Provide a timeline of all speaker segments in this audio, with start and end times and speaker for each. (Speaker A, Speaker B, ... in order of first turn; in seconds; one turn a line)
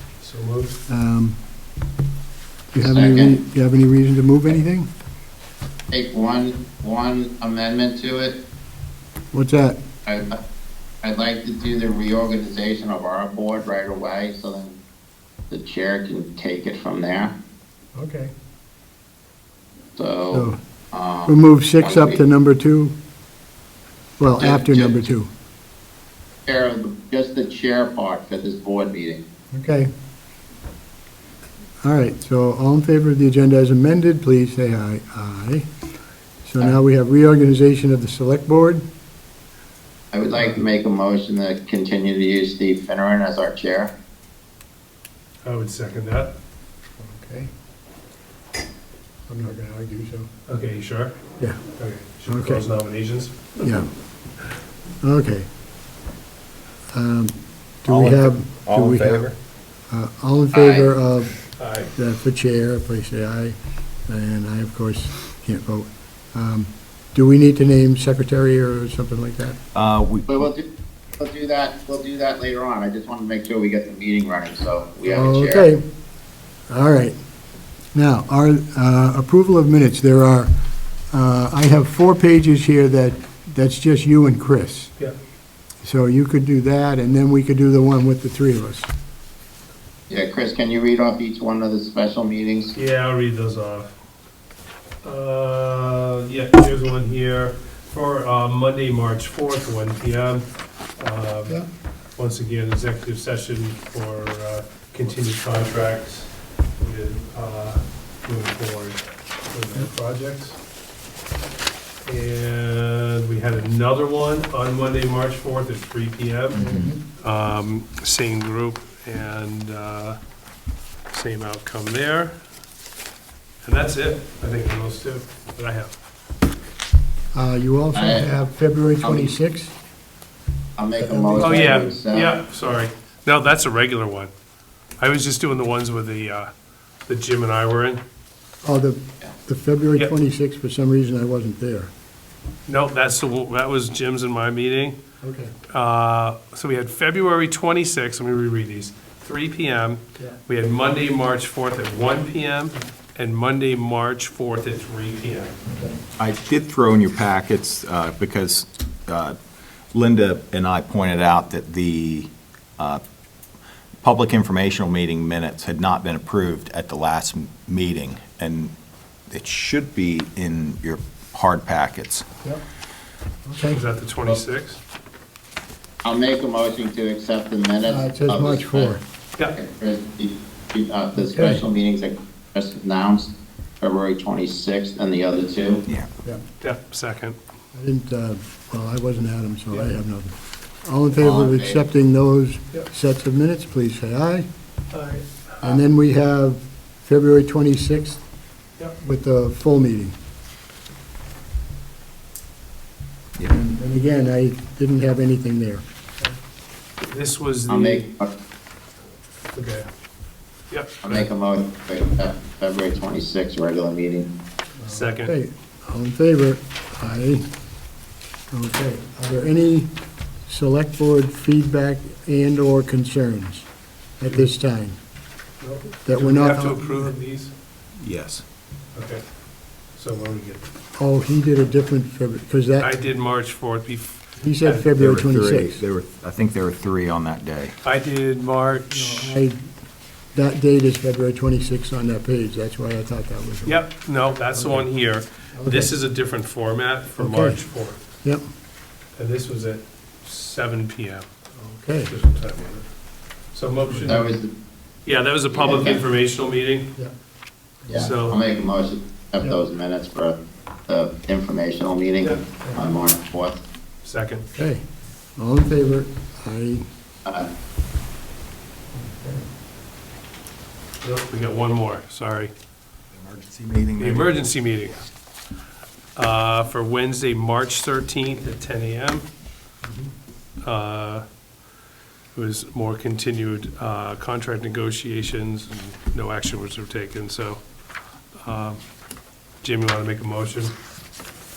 Speaker A: 0.2-0.8
Speaker B: 0.9-1.4
Speaker B: 2.7-4.9
Speaker C: 2.8-3.4
Speaker C: 5.9-8.3
Speaker B: 9.3-9.8
Speaker C: 10.1-10.4
Speaker C: 11.0-14.8
Speaker C: 15.5-17.3
Speaker B: 17.9-18.3
Speaker C: 19.9-22.2
Speaker B: 20.3-20.6
Speaker B: 21.3-22.9
Speaker B: 24.2-25.3
Speaker C: 24.4-25.0
Speaker C: 26.4-29.2
Speaker B: 29.5-29.9
Speaker B: 31.8-35.7
Speaker B: 36.4-38.8
Speaker C: 40.1-43.9
Speaker A: 45.4-46.3
Speaker B: 47.0-47.5
Speaker B: 49.3-50.3
Speaker A: 50.5-51.2
Speaker A: 51.8-53.7
Speaker B: 52.3-52.6
Speaker B: 53.6-53.9
Speaker B: 55.0-55.5
Speaker B: 56.9-59.3
Speaker D: 57.9-59.4
Speaker B: 59.9-61.3
Speaker C: 60.5-60.9
Speaker A: 61.6-61.9
Speaker B: 61.9-69.6
Speaker D: 69.7-70.5
Speaker C: 70.3-70.7
Speaker C: 71.2-75.7
Speaker B: 75.0-75.8
Speaker B: 76.7-77.2
Speaker B: 77.9-80.5
Speaker B: 81.1-84.9
Speaker B: 85.8-88.9
Speaker C: 90.1-92.7
Speaker A: 92.7-93.9
Speaker A: 95.0-100.4
Speaker A: 101.0-101.6
Speaker A: 102.2-110.5
Speaker A: 112.0-116.6
Speaker B: 116.6-117.0
Speaker D: 116.6-116.9
Speaker A: 117.2-120.2
Speaker A: 121.1-122.3
Speaker A: 123.6-125.9
Speaker B: 127.3-129.7
Speaker C: 127.9-128.3
Speaker C: 129.0-129.3
Speaker C: 130.8-132.3
Speaker B: 131.0-131.9
Speaker A: 131.4-134.3
Speaker A: 135.0-136.5
Speaker A: 137.1-138.0
Speaker B: 138.6-141.9
Speaker A: 142.7-145.0
Speaker B: 145.2-145.5
Speaker A: 145.7-155.6
Speaker B: 155.7-156.0
Speaker D: 156.2-159.3
Speaker D: 159.9-163.0
Speaker D: 164.0-168.7
Speaker D: 169.3-172.2
Speaker B: 173.5-173.8
Speaker A: 173.7-174.8
Speaker C: 176.0-178.9
Speaker B: 177.8-179.0
Speaker C: 179.5-185.8
Speaker B: 181.2-181.6
Speaker A: 186.6-187.4
Speaker B: 187.7-194.5
Speaker C: 191.2-191.8
Speaker A: 194.9-195.7
Speaker B: 195.6-198.2
Speaker B: 199.0-200.1
Speaker B: 203.5-205.8
Speaker A: 207.0-208.0
Speaker C: 207.7-208.3
Speaker A: 209.5-209.9
Speaker A: 210.7-211.2
Speaker C: 211.0-214.3
Speaker B: 214.8-217.4
Speaker A: 214.9-215.3
Speaker B: 218.5-219.9
Speaker B: 220.4-223.7
Speaker B: 224.2-225.0
Speaker A: 225.6-227.5
Speaker B: 226.0-227.1
Speaker D: 228.0-228.4
Speaker A: 228.9-229.2
Speaker A: 229.9-230.6
Speaker B: 230.9-232.9
Speaker A: 232.8-234.8
Speaker B: 234.4-235.8
Speaker D: 234.9-237.8
Speaker A: 237.8-239.3
Speaker B: 238.9-239.7
Speaker B: 240.3-243.8
Speaker A: 243.6-248.0
Speaker B: 244.6-244.9
Speaker B: 245.5-245.9
Speaker B: 247.2-247.6
Speaker A: 249.2-251.3
Speaker B: 251.6-252.1
Speaker A: 252.1-252.9
Speaker A: 253.5-254.3
Speaker B: 253.9-254.3
Speaker C: 254.1-254.5
Speaker A: 255.1-256.9
Speaker C: 255.5-256.0
Speaker B: 257.8-258.1
Speaker C: 257.9-263.6
Speaker A: 257.9-258.4
Speaker A: 262.2-262.8
Speaker A: 264.0-264.4
Speaker B: 264.5-264.8
Speaker B: 265.4-266.9
Speaker C: 267.2-267.5
Speaker B: 268.9-269.5
Speaker A: 271.0-272.5
Speaker D: 273.1-274.3
Speaker A: 274.0-275.0
Speaker A: 276.1-279.2
Speaker A: 280.6-281.2
Speaker A: 282.3-287.6
Speaker A: 288.4-288.8
Speaker A: 289.6-290.7